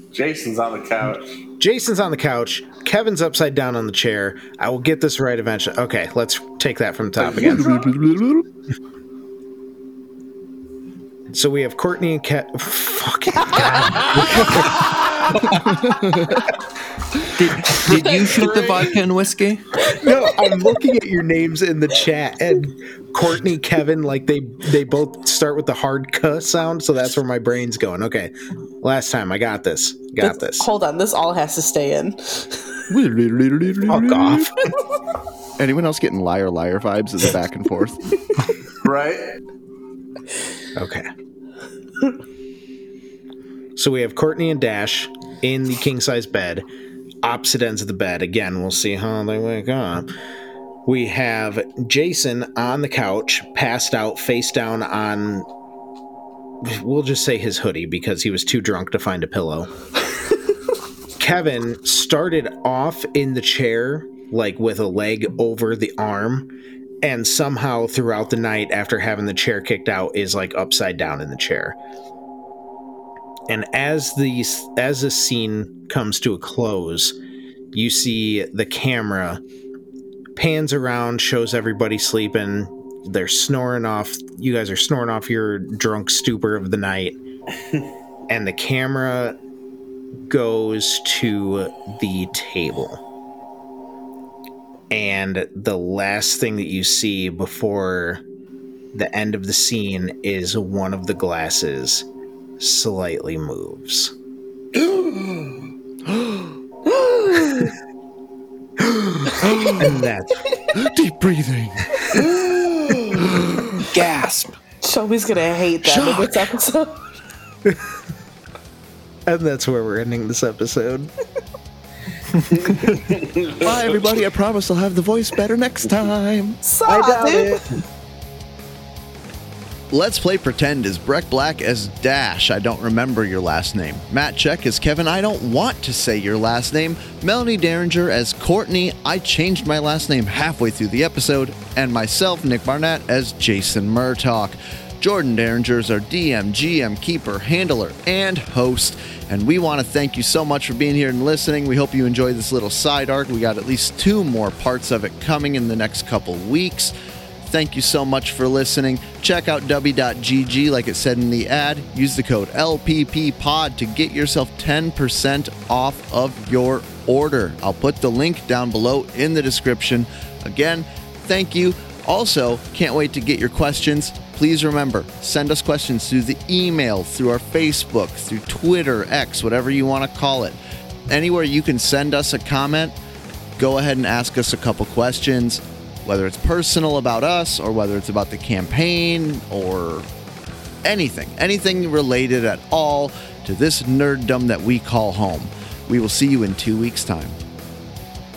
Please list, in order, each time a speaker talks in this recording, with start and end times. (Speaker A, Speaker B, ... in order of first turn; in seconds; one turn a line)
Speaker A: 0.1-1.4
Speaker B: 1.6-7.8
Speaker C: 7.2-8.4
Speaker B: 11.3-16.4
Speaker A: 14.7-15.2
Speaker C: 15.6-16.4
Speaker D: 17.3-19.9
Speaker E: 17.9-19.0
Speaker B: 19.9-30.7
Speaker E: 30.2-32.8
Speaker C: 32.9-34.5
Speaker B: 33.9-34.5
Speaker C: 35.6-38.1
Speaker A: 38.8-39.4
Speaker B: 40.7-41.1
Speaker B: 43.8-46.6
Speaker B: 47.2-50.1
Speaker B: 50.9-55.5
Speaker B: 56.6-59.7
Speaker B: 61.2-71.8
Speaker B: 73.5-77.2
Speaker B: 77.7-79.4
Speaker B: 80.3-87.2
Speaker B: 88.3-89.3
Speaker B: 90.3-93.0
Speaker B: 94.9-98.2
Speaker B: 98.9-102.0
Speaker B: 102.6-104.1
Speaker A: 104.7-105.5
Speaker C: 106.1-106.5
Speaker E: 106.8-107.7
Speaker B: 108.8-110.4
Speaker C: 109.4-110.0
Speaker C: 110.7-112.4
Speaker A: 112.1-113.3
Speaker C: 113.1-113.8
Speaker D: 113.8-114.5
Speaker E: 114.8-117.0
Speaker C: 115.8-116.5
Speaker B: 119.3-121.1
Speaker A: 122.5-124.2
Speaker C: 123.6-126.6
Speaker E: 126.6-127.6
Speaker B: 126.8-127.8
Speaker C: 129.9-156.9
Speaker C: 157.4-182.9
Speaker C: 183.6-190.1
Speaker C: 190.8-197.4